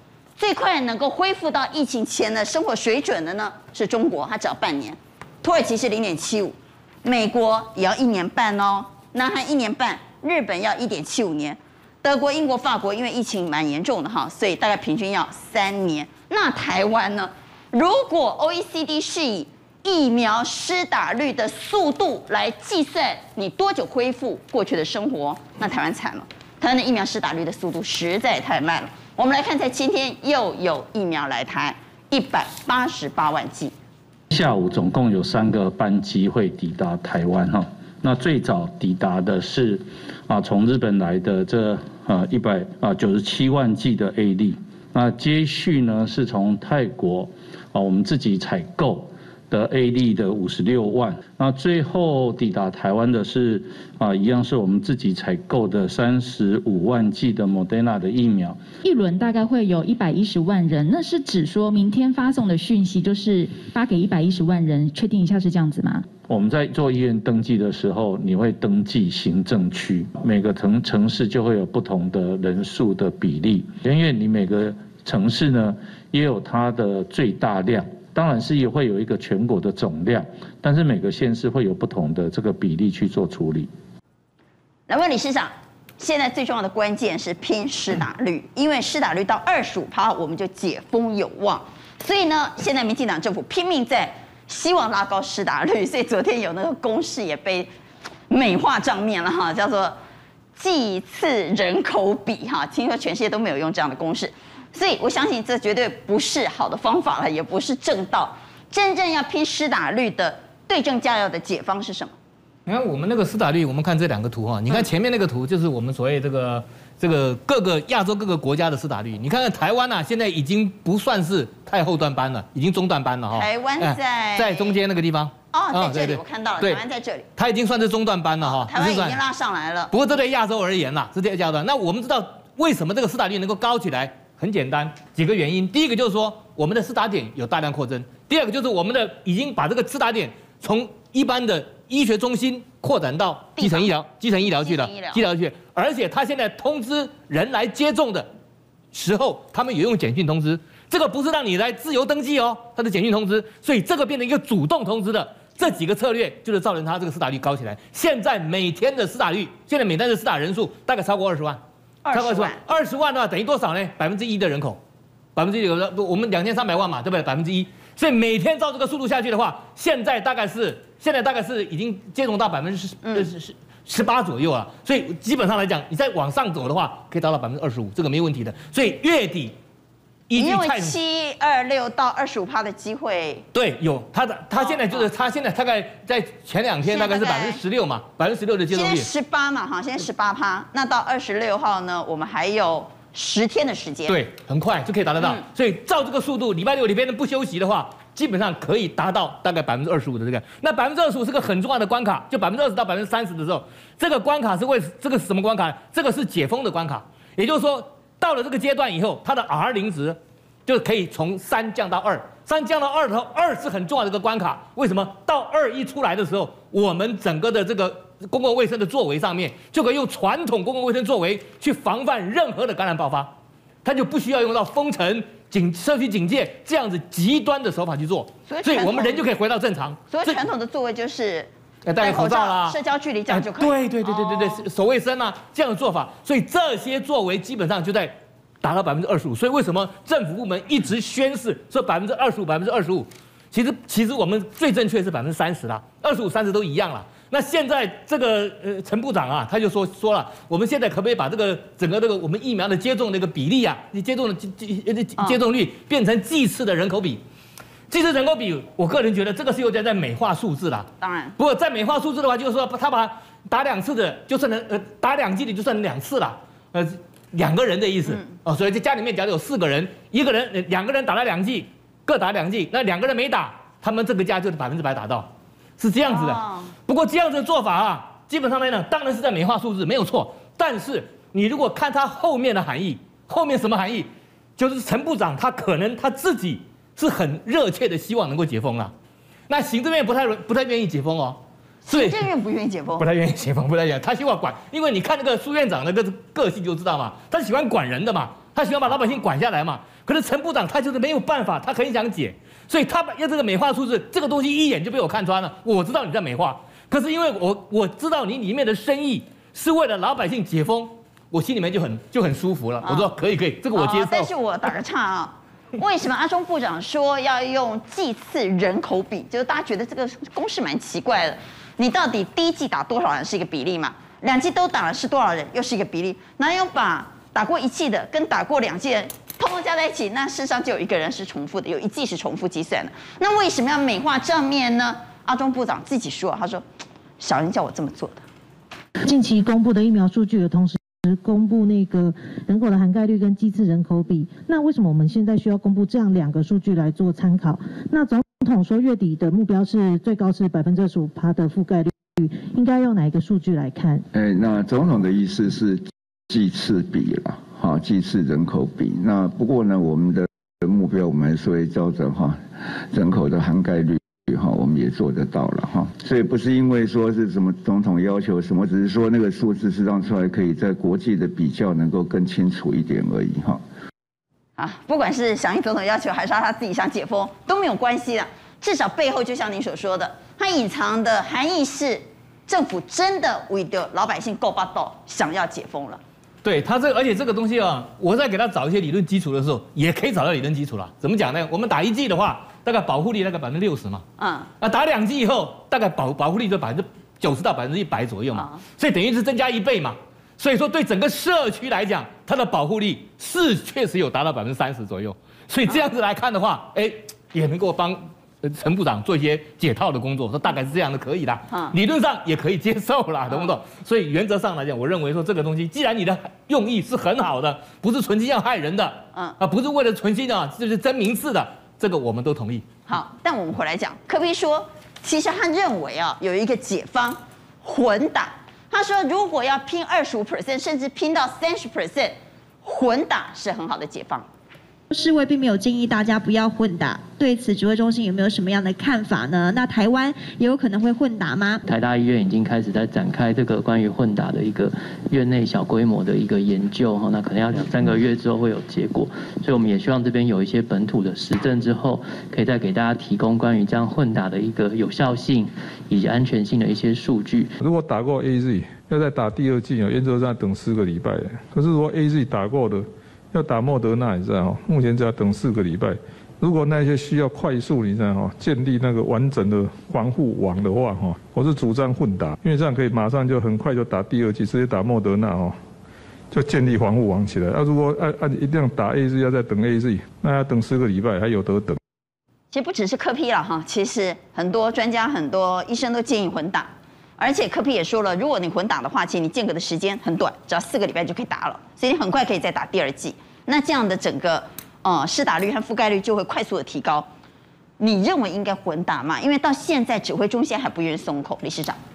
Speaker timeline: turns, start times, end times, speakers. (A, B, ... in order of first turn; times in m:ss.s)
0:00.4-0:33.7 A
0:34.3-0:58.6 B
0:58.8-1:06.0 C
1:06.3-1:23.7 B
1:24.9-1:37.7 A
1:38.3-1:39.9 A
1:40.6-1:52.1 A
1:52.6-2:06.8 D
2:03.3-2:04.8 A
2:05.5-2:07.3 A
2:07.4-2:09.2 D
2:08.4-2:09.9 A
2:09.9-2:28.3 D
2:23.6-2:25.2 A
2:28.9-2:41.6 D
2:42.0-2:42.6 A
2:42.1-2:44.8 D
2:45.4-2:59.5 D
2:53.0-2:53.3 A
3:00.3-3:01.0 D
3:00.4-3:03.4 A
3:03.5-3:09.1 D
3:04.6-3:05.1 A
3:06.8-3:07.6 A
3:08.7-3:14.2 A
3:14.1-3:50.4 D
3:48.5-3:49.2 A
3:50.1-3:54.6 A
3:51.8-3:52.8 D
3:53.3-4:17.2 D
4:17.9-4:48.9 D
4:21.0-4:21.4 A
4:36.1-4:36.7 A
4:49.5-4:51.4 D
4:51.8-4:53.0 A
4:51.9-4:52.2 D
4:53.0-5:14.3 D
5:12.8-5:13.1 A
5:13.7-5:36.6 A
5:37.2-5:38.2 A
5:39.0-5:54.0 E
5:54.1-6:02.4 F
6:02.9-6:13.6 F
6:14.6-6:26.0 A
6:26.4-6:34.0 D
6:34.2-6:34.5 A
6:34.6-7:02.7 D
6:38.3-6:38.6 A
6:51.5-6:51.7 A
6:53.3-6:53.6 A
7:02.9-7:14.2 A
7:14.9-7:21.6 G
7:21.6-7:37.5 H
7:37.6-7:55.6 I
7:56.3-8:01.8 I
8:02.5-8:17.1 A
8:17.8-8:21.8 A